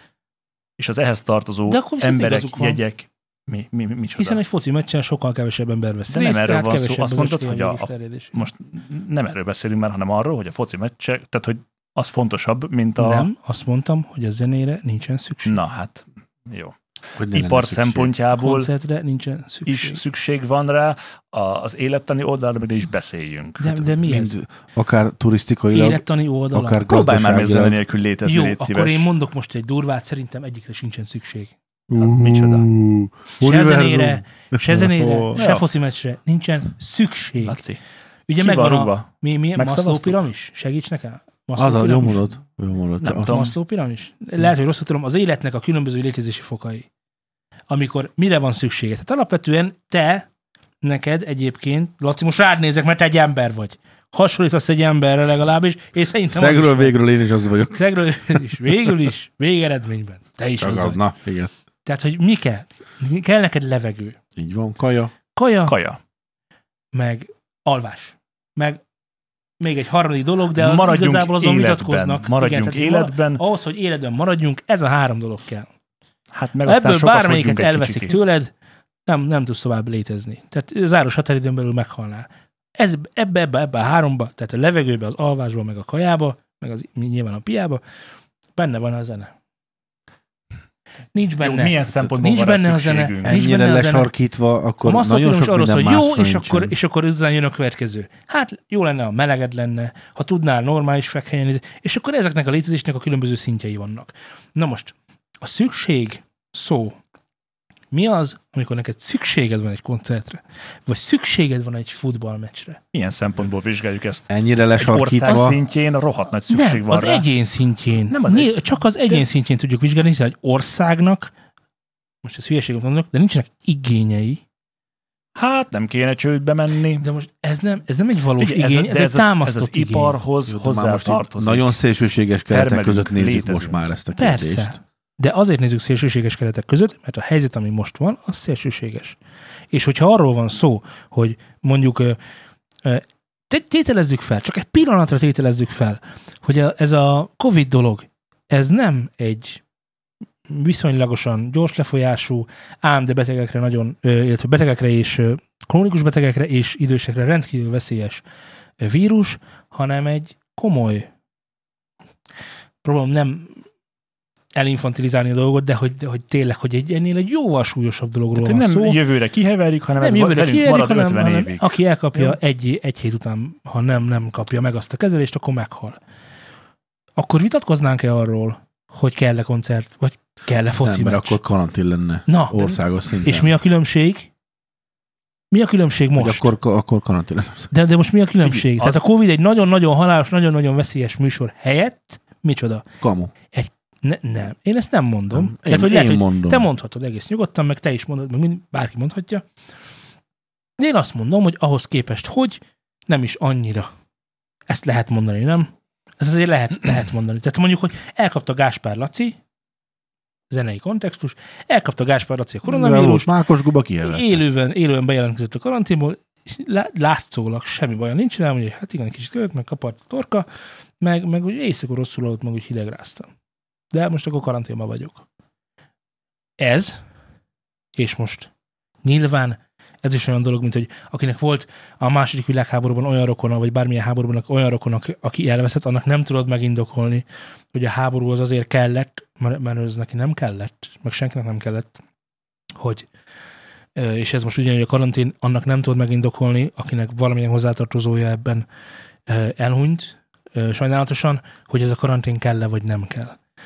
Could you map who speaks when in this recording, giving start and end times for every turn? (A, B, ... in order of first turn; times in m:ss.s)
0:00.8-0:04.4 A
0:01.6-0:02.8 B
0:04.2-0:08.4 B
0:06.1-0:13.3 A
0:13.0-0:15.6 B
0:15.4-0:16.7 A
0:17.2-0:18.1 C
0:17.3-0:18.7 A
0:18.3-0:20.0 B
0:19.6-0:23.9 A
0:23.6-0:24.3 B
0:24.0-0:27.8 C
0:25.7-0:26.8 B
0:26.9-0:29.1 A
0:28.2-0:31.5 B
0:31.9-0:35.4 C
0:32.0-0:32.7 A
0:33.4-0:37.6 B
0:35.4-0:35.6 A
0:37.4-0:37.8 A
0:38.3-0:42.2 B
0:38.4-0:40.2 A
0:41.6-0:43.4 C
0:43.0-0:43.5 A
0:43.2-0:46.9 B
0:47.7-0:50.3 B
0:50.8-0:57.0 B
0:56.3-0:58.4 C
0:57.7-1:01.0 B
1:00.6-1:01.5 C
1:01.8-1:04.2 B
1:04.4-1:05.1 C
1:05.4-1:05.8 B
1:05.7-1:06.0 A
1:06.9-1:08.8 B
1:09.6-1:15.7 B
1:10.5-1:13.4 A
1:16.3-1:18.3 A
1:16.6-1:18.5 B
1:19.0-1:27.8 B
1:28.6-1:29.3 B
1:31.1-1:34.1 B
1:31.4-1:33.4 A
1:33.2-1:36.7 C
1:34.8-1:47.0 B
1:47.9-1:52.8 B
1:52.9-1:57.3 A
1:54.3-1:55.6 C
1:56.5-2:01.3 B
1:58.1-1:59.2 A
2:02.2-2:04.4 B
2:05.4-2:07.0 A
2:07.0-2:10.2 B
2:08.4-2:11.8 A
2:10.5-2:14.8 C
2:12.5-2:13.8 A
2:14.2-2:19.2 B
2:19.7-2:22.2 B
2:22.8-2:29.6 B
2:30.5-2:38.2 B
2:38.8-2:41.1 B
2:42.8-2:43.6 B
2:44.5-2:49.0 B
2:48.4-2:52.4 A
2:50.0-2:56.0 B
2:57.2-3:01.4 B
3:00.8-3:03.6 C
3:02.3-3:04.3 B
3:05.5-3:06.5 B
3:06.1-3:07.7 C
3:07.7-3:12.9 B
3:08.4-3:09.0 A
3:13.0-3:13.3 C
3:13.5-3:19.4 B
3:15.3-3:16.7 C
3:20.8-3:23.9 B
3:24.7-3:29.4 B
3:30.5-3:33.3 B
3:32.6-3:34.4 C
3:34.0-3:40.5 B
3:41.0-3:43.3 B
3:43.9-3:45.2 B
3:46.6-3:47.0 B
3:48.0-3:48.5 B
3:49.0-4:02.0 B
4:02.8-4:03.1 B
4:03.9-4:08.7 B
4:09.3-4:13.4 B